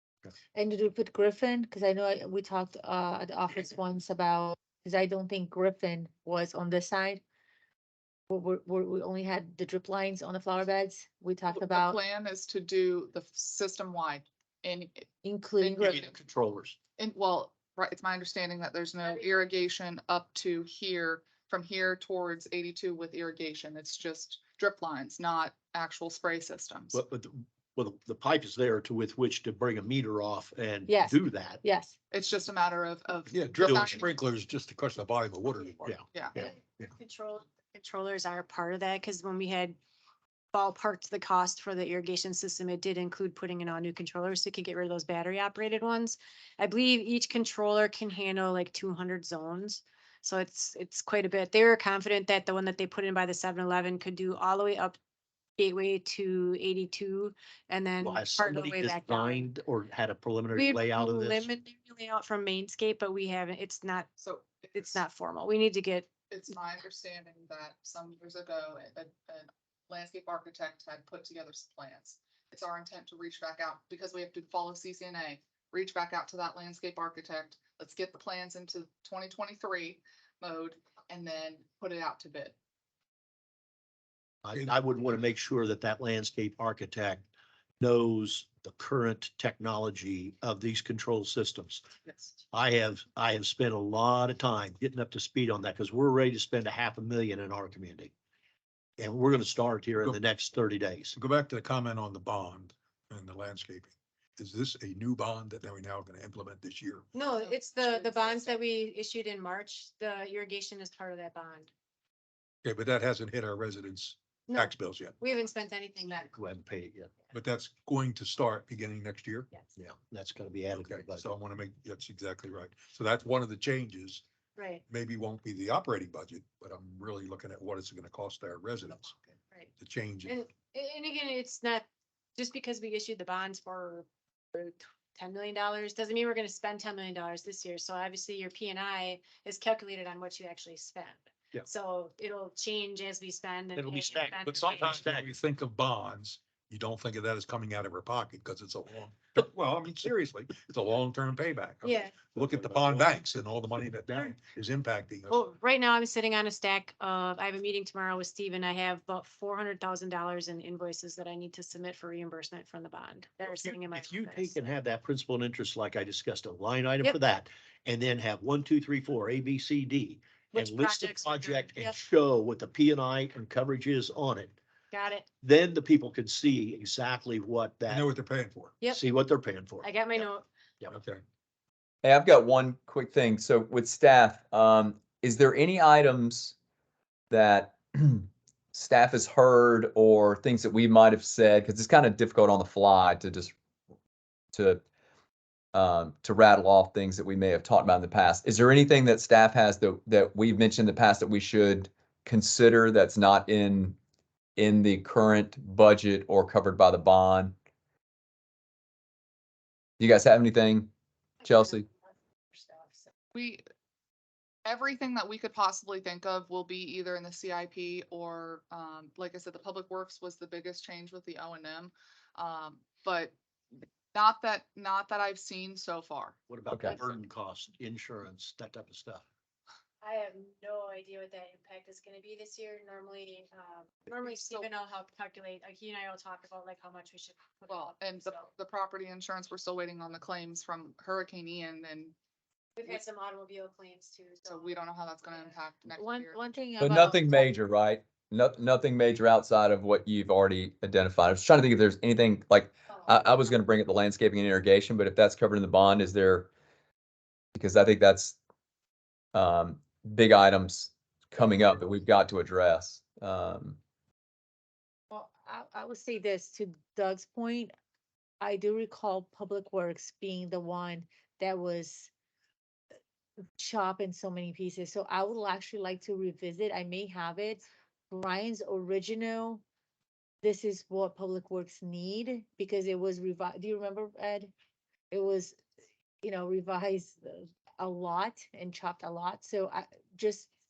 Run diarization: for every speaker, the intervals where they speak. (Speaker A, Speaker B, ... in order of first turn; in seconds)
Speaker A: 0.5-7.2, 8.3-12.0, 15.2-16.0, 30.9-31.9, 245.9-247.5, 265.1-267.7, 268.4-272.1, 273.6-279.6, 280.4-284.5, 285.1-285.6, 286.2-290.5
Speaker B: 11.5-15.1, 15.6-16.1, 17.0-27.0, 32.1-34.1, 36.1-36.4, 64.2-65.0, 66.3-82.5, 92.1-92.3, 107.3-108.6, 213.3-213.6, 214.6-223.3, 224.1-226.3, 234.1-234.7, 237.7-242.1, 244.4-246.6
Speaker C: 15.8-16.8, 26.9-31.6, 33.5-34.0, 35.8-36.5, 58.0-61.5, 84.4-87.2, 87.8-91.8, 92.5-98.1, 99.0-101.2, 116.3-117.1, 119.8-121.3, 143.8-145.3, 152.3-153.1, 154.1-154.3, 163.4-174.6, 175.4-178.1, 178.9-179.9, 226.5-229.2
Speaker D: 19.1-19.5, 36.4-39.8, 40.5-55.0, 55.6-59.5, 60.5-64.1, 64.7-66.1, 107.1-111.7, 114.5-116.3, 124.6-124.8, 130.2-131.8, 132.4-145.1, 151.8-152.2, 155.3-164.6, 170.5-171.9, 174.9-175.3, 179.8-180.5, 211.4-211.8, 212.5-213.1, 230.0-238.5, 242.8-245.6
Speaker E: 33.3-36.0, 101.1-107.0, 112.6-115.1, 117.3-119.5, 120.8-124.2, 124.9-129.2, 129.8-130.4, 144.4-155.4, 177.9-178.7, 180.9-181.2
Speaker F: 182.0-186.5, 187.3-193.5, 194.5-194.8, 195.7-203.9, 204.6-207.6, 210.0-210.9, 211.4-211.9, 226.7-227.0, 246.8-256.5, 257.5-258.4, 259.3-263.8